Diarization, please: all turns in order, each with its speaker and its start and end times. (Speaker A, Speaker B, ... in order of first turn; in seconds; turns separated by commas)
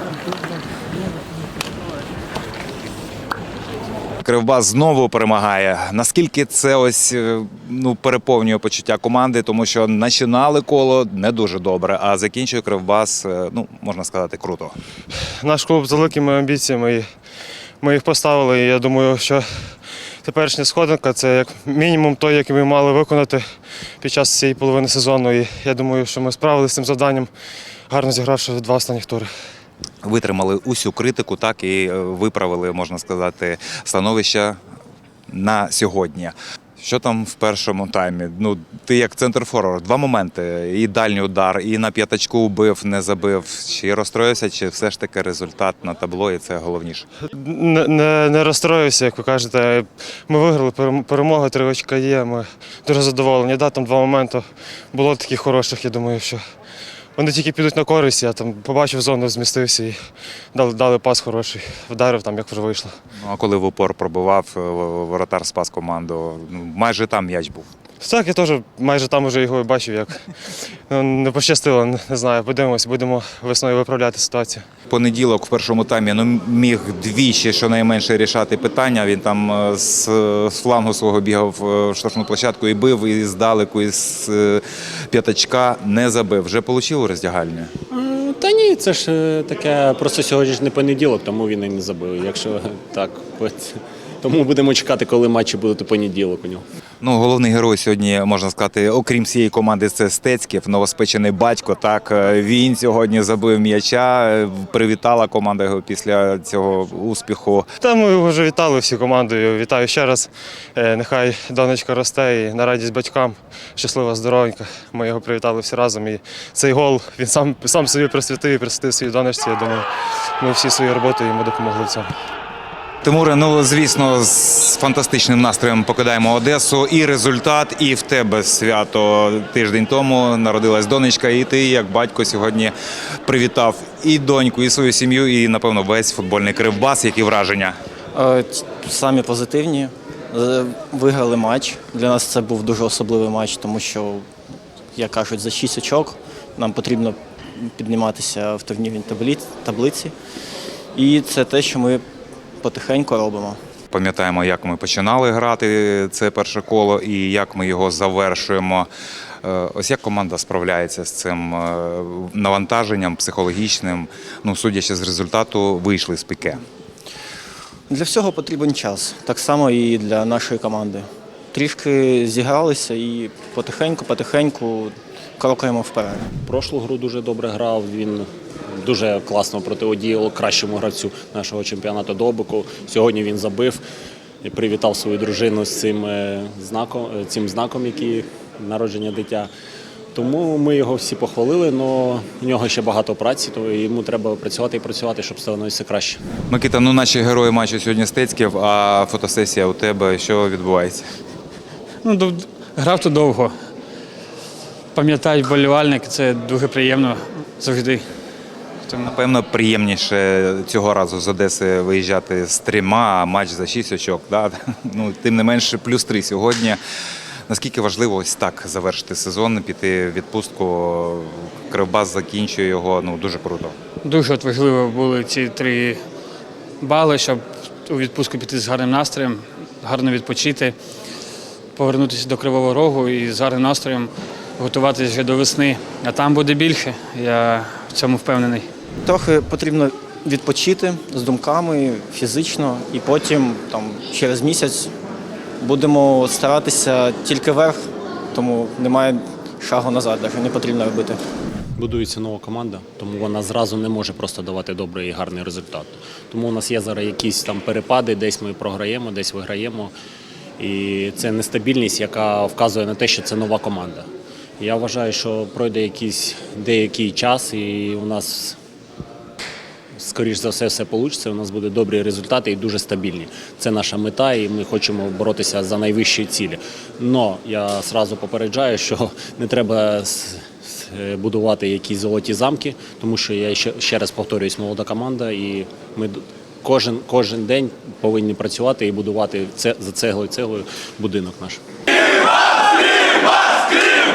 Speaker A: 4.2-14.7, Speaker B: 15.4-17.1, Speaker B: 17.8-19.5, Speaker B: 20.2-23.4, Speaker B: 24.0-27.3, Speaker B: 27.9-29.3, Speaker A: 30.0-34.6, Speaker A: 35.3-47.1, Speaker B: 47.3-56.4, Speaker B: 57.1-60.0, Speaker B: 60.5-62.9, Speaker A: 63.2-67.7, Speaker B: 68.0-70.2, Speaker B: 70.9-74.6, Speaker A: 74.9-87.7, Speaker C: 87.9-96.6, Speaker A: 97.0-107.7, Speaker B: 107.8-119.9, Speaker B: 120.4-122.1, Speaker A: 123.0-132.7, Speaker A: 133.2-137.8, Speaker D: 138.1-144.2, Speaker D: 144.9-150.1, Speaker D: 150.9-152.0, Speaker D: 152.6-153.6, Speaker A: 153.9-158.9, Speaker A: 159.4-166.6, Speaker D: 167.9-176.3, Speaker C: 176.4-183.8, Speaker C: 184.4-189.5, Speaker C: 190.1-196.2, Speaker A: 196.5-201.1, Speaker E: 202.0-203.5, Speaker E: 204.9-208.0, Speaker A: 209.0-216.8, Speaker A: 217.5-223.7, Speaker E: 224.0-226.0, Speaker E: 226.8-230.8, Speaker E: 231.8-238.7, Speaker D: 239.0-244.9, Speaker D: 245.6-247.8, Speaker D: 248.3-251.2, Speaker C: 251.8-259.9, Speaker C: 260.6-264.1, Speaker C: 264.6-268.6, Speaker C: 269.9-291.6